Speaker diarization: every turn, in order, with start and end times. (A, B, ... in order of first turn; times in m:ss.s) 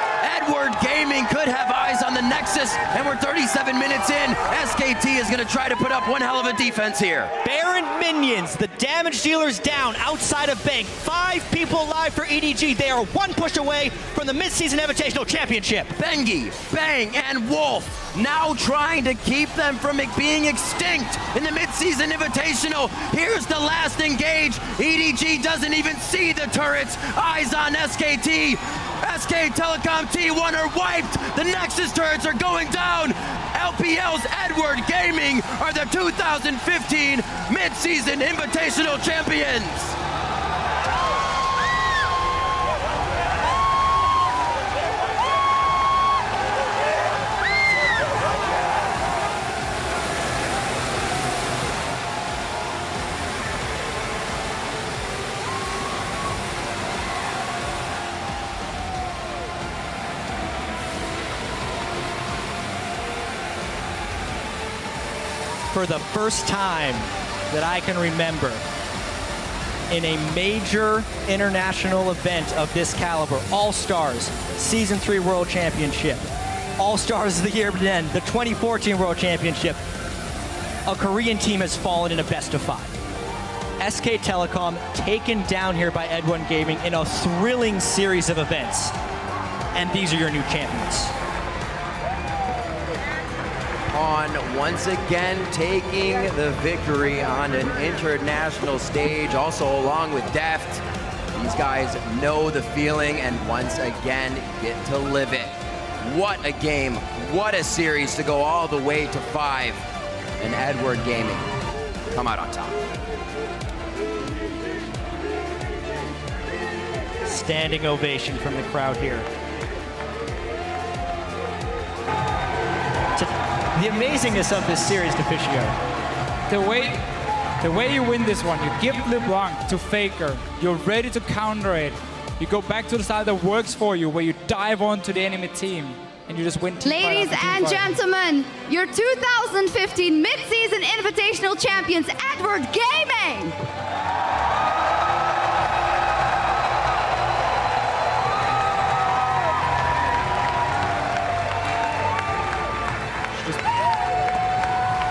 0:00.2-0:07.3 A
0:07.4-0:15.9 B
0:16.0-0:40.0 A
1:05.7-1:08.6 B
1:09.9-1:16.3 B
1:16.8-1:19.8 B
1:20.9-1:22.9 B
1:23.8-1:28.9 B
1:29.8-1:31.1 B
1:33.9-1:40.8 A
1:41.4-1:49.8 A
1:50.4-1:51.5 A
1:52.1-1:52.8 A
1:57.3-1:59.3 B
2:03.2-2:05.7 B
2:06.5-2:07.0 C
2:07.6-2:17.9 C
2:16.8-2:23.6 D
2:33.3-2:33.6 C